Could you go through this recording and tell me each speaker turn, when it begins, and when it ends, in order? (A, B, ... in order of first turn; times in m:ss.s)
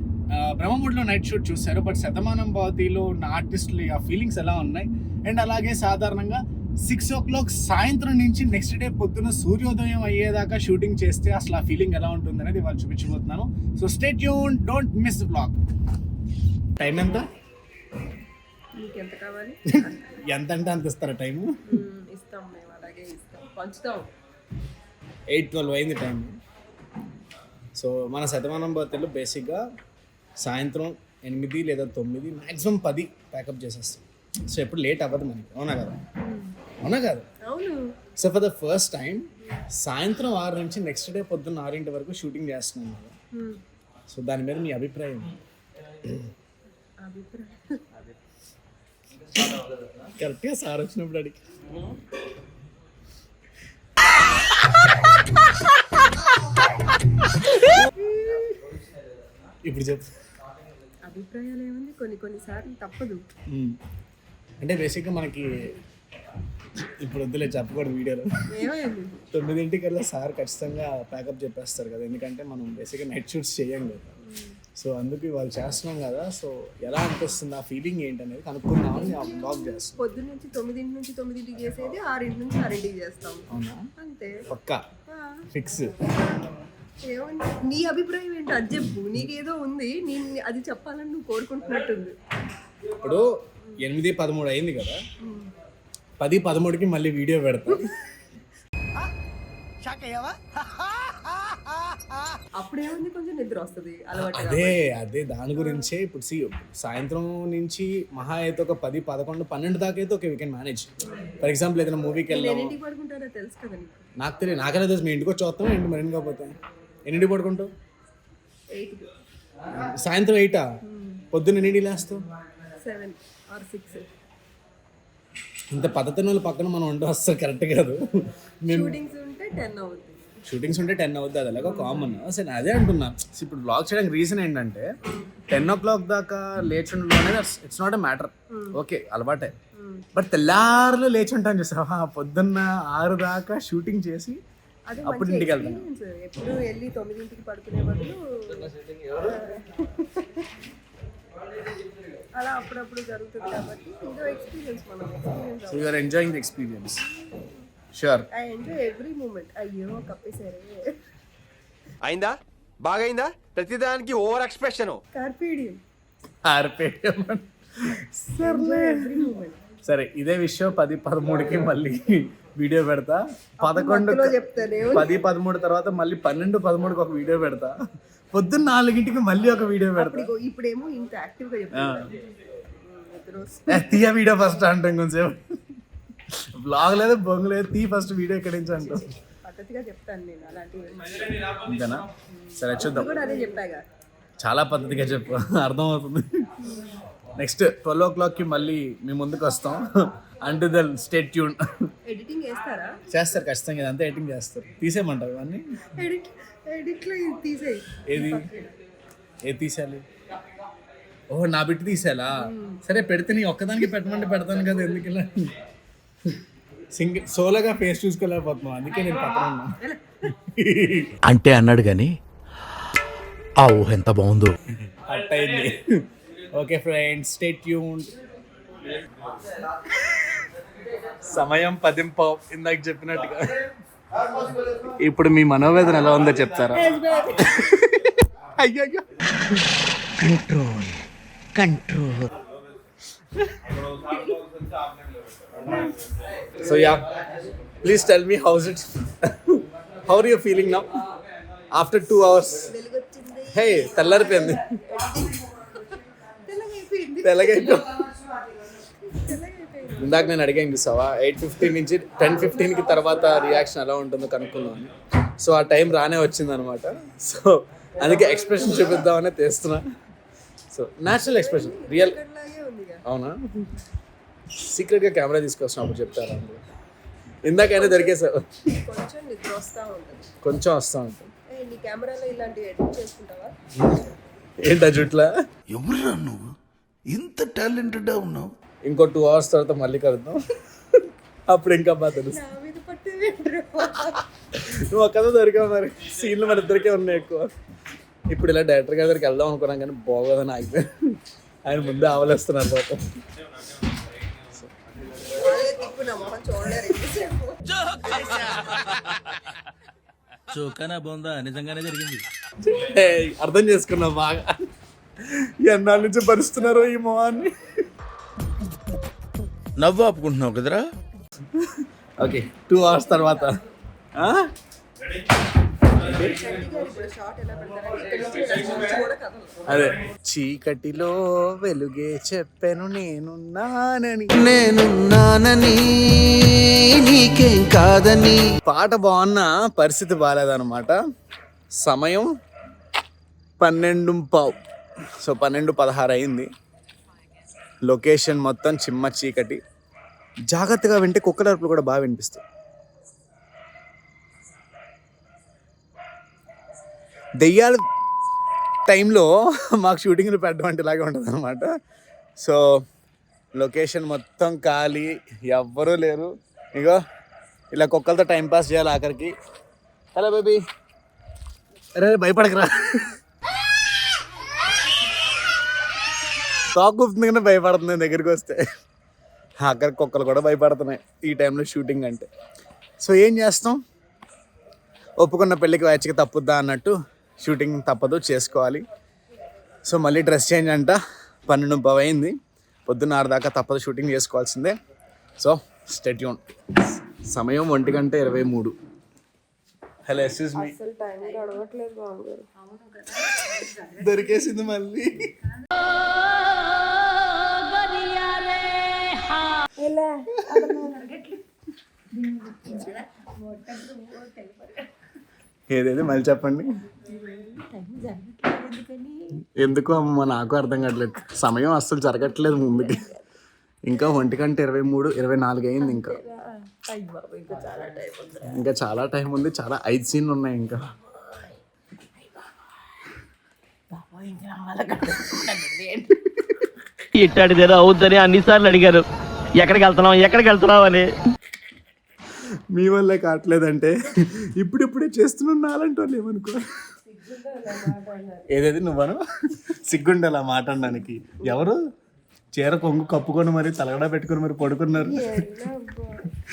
0:00.3-0:15.6 A
0:16.8-0:17.2 A
0:18.8-0:20.0 B
0:20.2-0:21.5 A
0:21.7-0:24.1 B
0:25.3-0:26.3 A
0:27.8-0:29.6 A
0:30.4-0:36.0 A
0:36.2-0:36.6 B
0:36.8-0:37.2 A
0:37.4-0:37.9 B
0:38.2-0:43.1 A
0:43.3-0:43.6 B
0:44.1-0:45.3 A
0:47.0-0:47.8 B
0:50.2-0:51.4 A
0:58.0-0:58.4 B
0:59.6-1:00.1 A
1:01.1-1:03.2 B
1:03.5-1:03.8 A
1:04.6-1:05.5 A
1:07.0-1:08.3 A
1:08.5-1:09.2 B
1:09.3-1:14.1 A
1:14.2-1:14.6 B
1:14.8-1:20.0 A
1:18.9-1:23.4 B
1:23.5-1:23.9 A
1:24.0-1:24.4 B
1:24.5-1:24.8 A
1:25.1-1:25.4 B
1:25.5-1:25.9 A
1:27.0-1:32.1 B
1:33.0-1:33.3 A
1:33.8-1:35.0 A
1:35.2-1:35.5 B
1:36.2-1:37.9 A
1:39.8-1:40.4 A
1:42.5-1:44.8 B
1:44.2-1:52.8 A
1:52.3-1:54.1 B
1:54.2-1:57.7 A
1:58.7-1:59.1 B
1:59.8-2:00.6 A
2:00.8-2:01.2 B
2:01.3-2:02.2 A
2:02.8-2:04.0 B
2:05.7-2:08.0 A
2:08.6-2:08.9 A
2:08.7-2:10.2 B
2:10.4-2:14.9 A
2:11.6-2:12.1 B
2:15.0-2:15.4 B
2:15.5-2:19.5 A
2:19.7-2:20.0 B
2:20.1-2:24.4 A
2:24.9-2:30.5 B
2:25.0-2:25.8 A
2:32.4-2:36.0 B
2:35.7-2:37.0 A
2:37.9-2:38.3 A
2:38.3-2:41.0 B
2:42.0-2:45.0 C
2:45.1-2:45.8 B
2:46.4-2:49.0 A
2:48.4-2:49.6 B
2:49.8-2:54.4 A
2:53.6-2:55.1 B
2:54.9-2:57.7 A
2:58.3-3:00.3 A
2:59.9-3:02.1 B
3:02.8-3:04.0 B
3:03.7-3:05.4 A
3:06.3-3:09.1 A
3:08.8-3:11.4 B
3:11.6-3:12.0 A
3:12.3-3:13.8 B
3:12.6-3:13.1 A
3:14.4-3:16.2 A
3:17.4-3:19.8 A
3:20.4-3:21.6 A
3:22.0-3:23.0 B
3:23.1-3:25.6 A
3:26.0-3:28.7 B
3:28.0-3:28.4 A
3:29.4-3:30.0 A
3:31.3-3:35.5 A
3:32.4-3:32.8 B
3:36.9-3:39.7 A
3:40.5-3:41.1 A
3:41.3-3:42.1 D
3:43.6-3:44.3 D
3:44.1-3:44.5 E
3:45.0-3:46.0 A
3:46.5-3:48.1 A
3:51.3-3:53.6 A
3:55.0-3:56.8 A
3:56.8-3:57.5 B
3:57.5-3:58.1 A
3:58.6-3:59.0 A
4:00.2-4:00.9 D
4:01.6-4:02.2 D
4:06.6-4:07.0 A
4:07.8-4:10.9 A
4:11.7-4:12.7 A
4:12.7-4:17.8 B
4:13.5-4:14.6 A
4:17.2-4:18.0 A
4:19.0-4:20.1 B
4:20.0-4:29.8 A
4:30.7-4:32.2 A
4:31.2-4:33.0 B
4:33.0-4:33.4 A
4:34.6-4:36.6 A
4:37.4-4:38.6 A
4:37.5-4:38.2 B
4:38.8-4:40.2 B
4:40.4-4:41.3 A
4:41.5-4:43.6 B
4:44.6-4:45.3 A
4:45.7-4:46.5 D
4:47.1-4:48.5 D
4:48.8-4:50.4 A
4:50.9-4:52.4 A
4:52.3-4:54.2 B
4:54.5-4:57.5 A
4:58.3-5:00.9 A
5:01.6-5:03.0 A
5:05.3-5:07.6 B
5:10.5-5:12.2 E
5:12.6-5:14.6 A
5:15.2-5:17.5 A
5:19.8-5:20.8 D
5:21.5-5:23.5 A
5:24.2-5:24.5 A
5:26.0-5:29.6 B
5:29.7-5:34.3 A
5:34.3-5:38.4 F
5:38.6-5:40.9 A
5:41.8-5:42.3 A
5:43.6-5:44.6 A
5:45.2-5:46.5 A
5:47.8-5:49.6 A
5:50.5-5:52.4 A
5:57.4-5:57.8 A
5:58.9-6:01.7 A
6:03.6-6:07.0 A
6:07.7-6:09.3 A
6:10.2-6:10.6 A
6:12.0-6:13.1 A
6:16.7-6:18.6 A
6:19.6-6:22.3 A
6:23.0-6:23.8 A
6:25.2-6:28.8 A
6:29.9-6:31.0 A
6:31.5-6:32.3 A
6:32.9-6:34.7 A
6:35.4-6:36.4 A
6:37.1-6:38.7 A
6:40.0-6:40.7 A
6:40.5-6:43.0 B
6:43.2-6:45.2 A
6:43.6-6:44.0 B
6:49.8-6:51.4 B
6:52.1-6:54.9 B
6:55.7-6:56.7 A
6:57.1-6:59.4 B
6:59.6-7:03.0 A
7:02.5-7:03.1 B
7:03.9-7:06.2 A
7:05.8-7:08.6 B
7:08.5-7:10.9 A
7:14.6-7:16.0 B
7:17.2-7:19.0 G
7:19.6-7:21.1 G
7:22.7-7:26.6 A
7:27.0-7:28.5 B
7:28.5-7:31.8 A
7:32.5-7:35.4 A
7:35.0-7:36.2 B